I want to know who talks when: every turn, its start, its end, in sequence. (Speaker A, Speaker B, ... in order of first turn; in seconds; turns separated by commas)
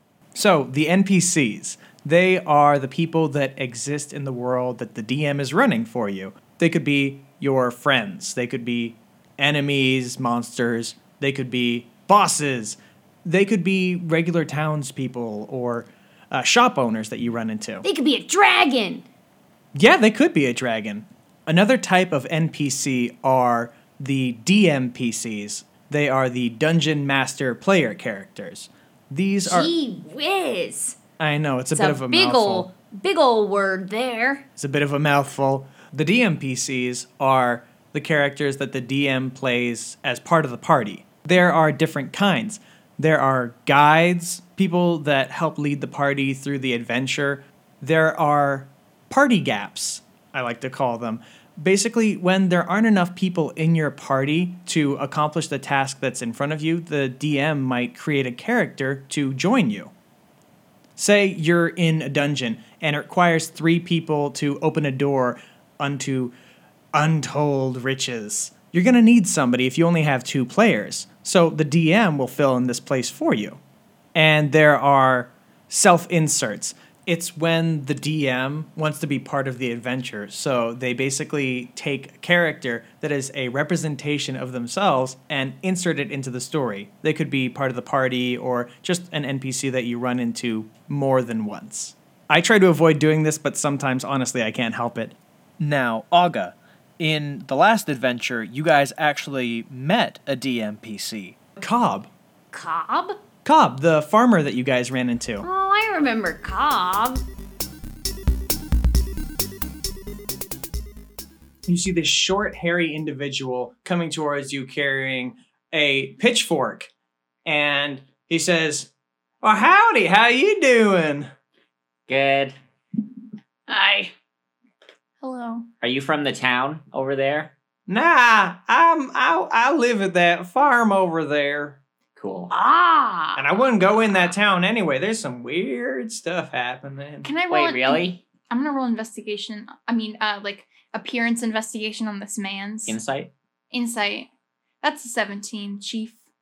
Speaker A: 0.3-17.8, Speaker B: 17.8-19.1, Speaker A: 19.8-29.7, Speaker B: 29.4-31.0, Speaker A: 31.2-32.7, Speaker B: 31.7-34.5, Speaker A: 34.6-59.9, Speaker A: 61.0-66.3, Speaker A: 66.9-73.6, Speaker A: 74.2-102.1, Speaker B: 102.5-103.2, Speaker A: 103.4-105.5, Speaker B: 105.4-107.2, Speaker A: 111.7-116.9, Speaker A: 117.5-118.9, Speaker A: 119.4-121.3, Speaker C: 122.1-122.6, Speaker B: 123.7-124.1, Speaker D: 125.2-125.7, Speaker C: 125.8-127.5, Speaker A: 127.9-131.8, Speaker C: 132.2-132.5, Speaker B: 132.5-133.4, Speaker A: 133.4-137.3, Speaker D: 137.2-143.0, Speaker C: 137.5-138.2, Speaker C: 142.9-143.3, Speaker D: 143.7-144.3, Speaker D: 144.8-146.2